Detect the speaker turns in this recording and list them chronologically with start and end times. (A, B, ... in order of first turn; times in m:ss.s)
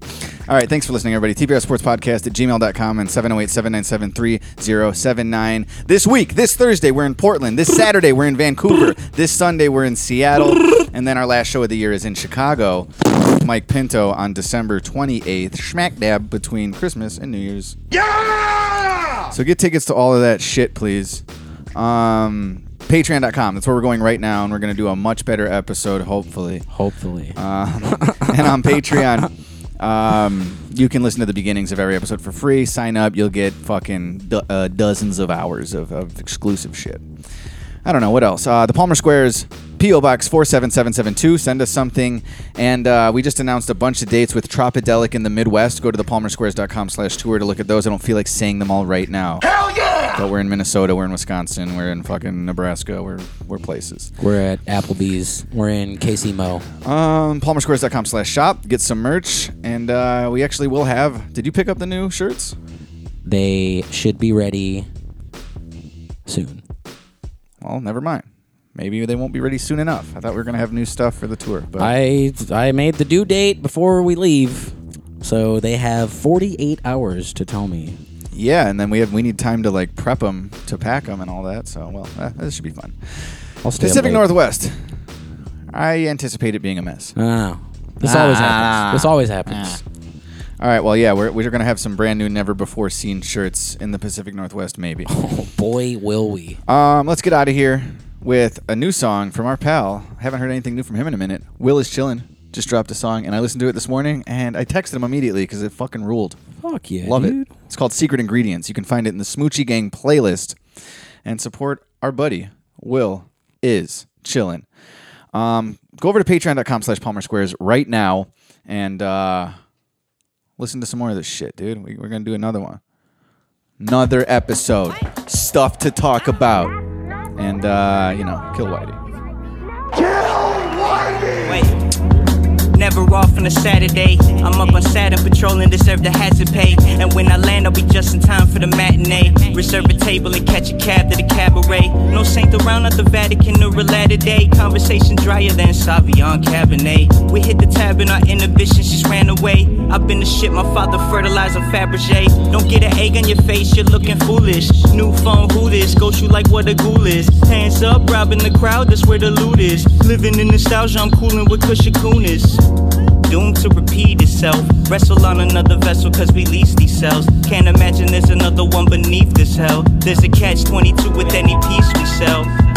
0:00.5-0:17.8 A
0:19.3-0:21.2 A
0:21.7-0:26.6 A
0:26.7-0:27.4 B
0:27.4-0:37.0 A
0:27.9-0:29.2 B
0:37.8-0:49.5 A
0:50.1-0:54.1 A
0:54.2-0:56.7 B
0:56.8-1:02.6 A
1:03.2-1:04.9 B
1:06.3-1:06.6 B
1:07.6-1:11.9 A
1:11.8-1:18.0 B
1:18.3-1:24.8 A
1:23.6-1:24.2 B
1:25.7-1:27.1 A
1:27.2-1:29.8 B
1:28.0-1:29.8 A
1:30.6-1:35.1 A
1:35.1-1:36.6 B
1:36.7-1:46.4 A
1:46.6-1:47.5 B
1:47.0-1:50.6 A
1:51.2-1:54.6 A
1:55.3-1:59.5 A
2:00.6-2:02.8 A
2:03.8-2:06.7 A
2:07.4-2:09.0 A
2:11.4-2:11.8 C
2:12.7-2:42.6 C
2:43.2-2:52.5 C